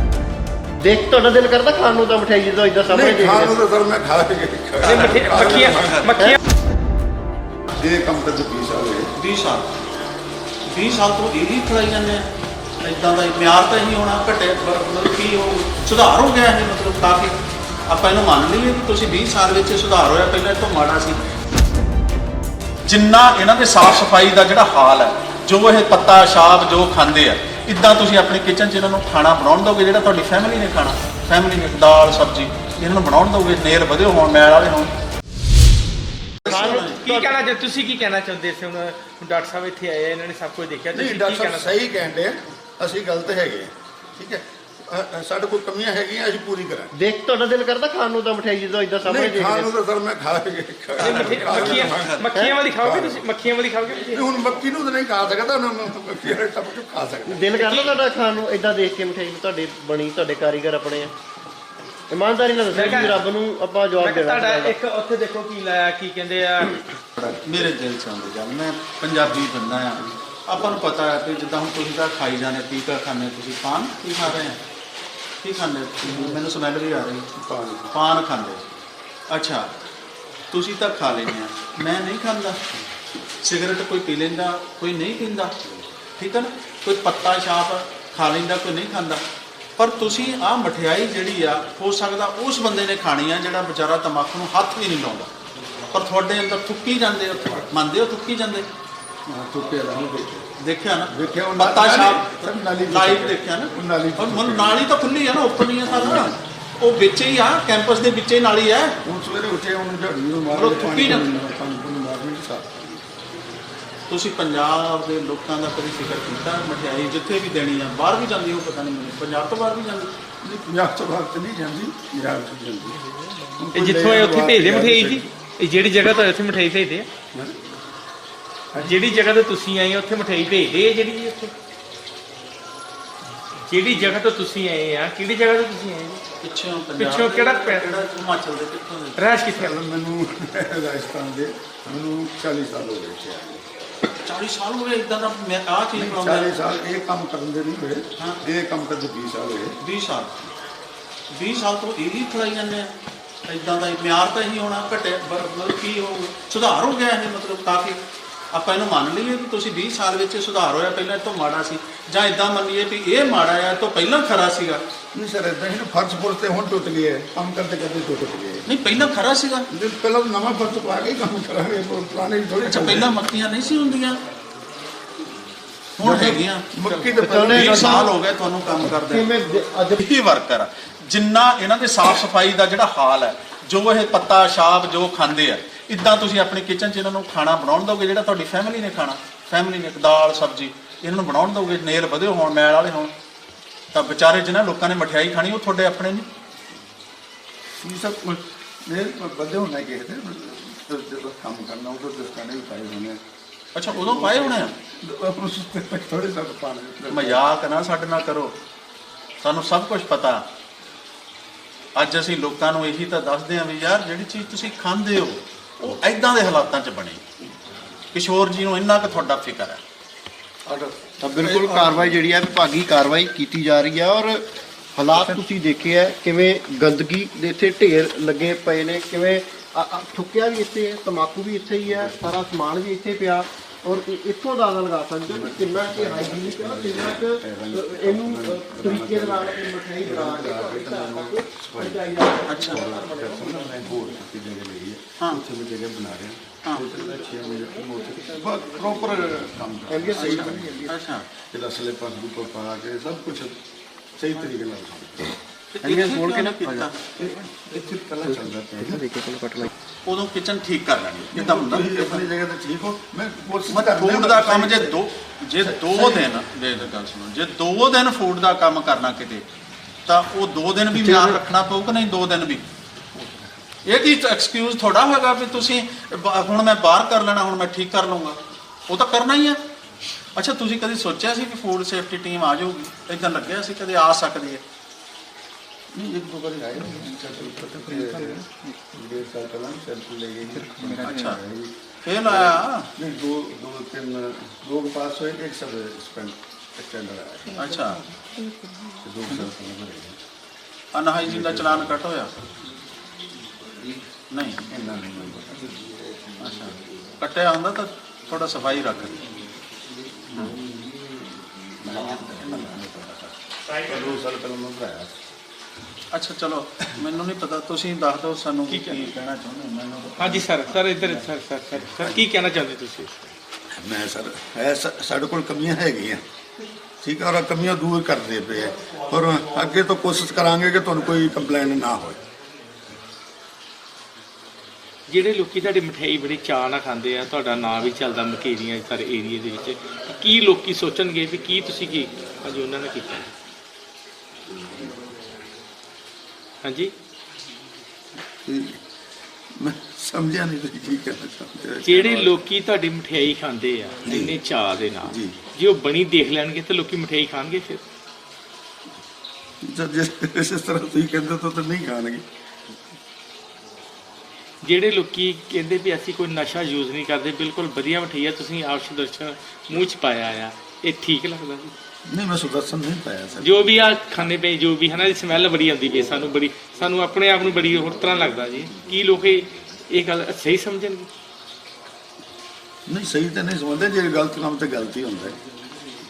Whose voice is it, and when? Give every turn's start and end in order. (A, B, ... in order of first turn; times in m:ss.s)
0:00.8-0:03.6 A
0:02.9-0:06.0 B
0:04.8-0:06.4 C
0:04.9-0:06.1 D
0:07.8-0:09.1 B
0:09.2-0:09.7 D
0:10.6-0:12.3 D
0:12.8-0:21.2 D
0:22.8-0:34.9 D
0:36.4-0:37.0 D
0:36.4-0:37.4 A
0:36.9-0:41.7 C
0:40.9-0:46.9 B
0:46.9-0:49.7 A
0:49.0-0:52.2 B
0:51.0-0:54.2 C
0:51.0-0:52.2 D
0:52.8-0:53.2 B
0:54.1-0:57.5 B
0:57.3-1:01.1 A
0:57.6-0:57.9 C
1:02.1-1:04.7 A
1:02.7-1:03.2 C
1:02.8-1:03.1 D
1:04.0-1:06.8 C
1:07.2-1:07.7 B
1:07.2-1:14.6 D
1:15.4-1:17.3 D
1:16.0-1:16.4 B
1:17.3-1:17.9 B
1:17.9-1:18.6 D
1:19.3-1:19.7 D
1:20.5-1:22.6 D
1:23.4-1:25.5 D
1:26.2-1:29.2 D
1:29.8-1:35.3 D
1:35.9-1:38.7 D
1:39.3-1:40.5 B
1:40.6-1:49.0 D
1:41.1-1:44.8 B
1:45.8-1:46.3 B
1:49.0-1:53.1 B
1:50.5-1:51.3 D
1:54.1-2:00.1 D
2:00.4-2:05.3 B
2:03.7-2:07.1 C
2:07.3-2:07.6 B
2:08.7-2:09.0 B
2:08.8-2:11.5 C
2:13.7-2:16.2 C
2:16.4-2:19.2 D
2:17.0-2:18.0 C
2:19.2-2:19.7 C
2:19.5-2:23.6 B
2:24.2-2:26.5 D
2:25.9-2:29.8 B
2:29.8-2:30.3 D
2:31.3-2:32.9 D
2:33.5-2:38.0 D
2:38.5-2:44.8 D
2:45.1-2:48.7 B
2:48.7-2:49.7 D
2:49.7-2:53.1 B
2:52.6-2:54.2 D
2:56.0-2:59.3 D
2:56.0-2:57.8 B
2:57.2-2:58.1 A
2:58.9-3:00.0 A
3:00.0-3:13.1 D
3:13.9-3:16.3 D
3:17.8-3:23.2 B
3:23.7-3:24.7 D
3:23.9-3:27.4 B
3:27.1-3:28.6 D
3:29.4-3:30.4 D
3:31.9-3:37.2 D
3:38.1-3:39.8 D
3:41.2-3:44.4 A
3:41.4-3:42.2 D
3:45.0-4:04.0 A
3:51.8-3:52.2 B
3:55.3-4:10.9 B
4:02.4-4:02.8 D
4:07.2-4:09.2 A
4:09.9-4:11.0 A
4:10.1-4:11.3 D
4:11.5-4:13.6 B
4:14.2-4:15.4 B
4:15.7-4:17.0 D
4:15.8-4:17.5 A
4:17.2-4:19.0 B
4:18.3-4:19.7 A
4:20.0-4:22.2 D
4:21.3-4:25.0 B
4:23.7-4:29.5 D
4:25.6-4:26.2 B
4:30.0-4:32.6 D
4:33.8-4:39.6 D
4:40.4-4:44.6 D
4:45.9-4:57.8 B
4:51.0-4:51.4 D
4:52.0-4:52.9 D
4:57.5-4:58.0 D
4:58.3-4:58.8 A
4:59.0-5:00.2 B
5:00.9-5:02.3 D
5:01.2-5:02.0 B
5:04.3-5:04.6 D
5:04.6-5:06.0 B
5:06.4-5:09.2 D
5:10.3-5:15.2 B
5:16.1-5:21.1 D
5:18.7-5:19.0 C
5:20.2-5:23.3 C
5:21.7-5:22.2 B
5:23.7-5:26.2 B
5:27.0-5:32.2 B
5:35.1-5:43.3 C
5:46.6-5:46.9 C
5:48.4-5:48.8 B
5:49.5-5:52.4 B
5:51.8-5:57.8 C
5:54.0-5:54.4 B
5:55.0-5:55.4 B
5:59.6-6:02.2 B
6:04.6-6:11.7 C
6:12.0-6:13.6 B
6:13.4-6:21.1 C
6:22.9-6:25.4 B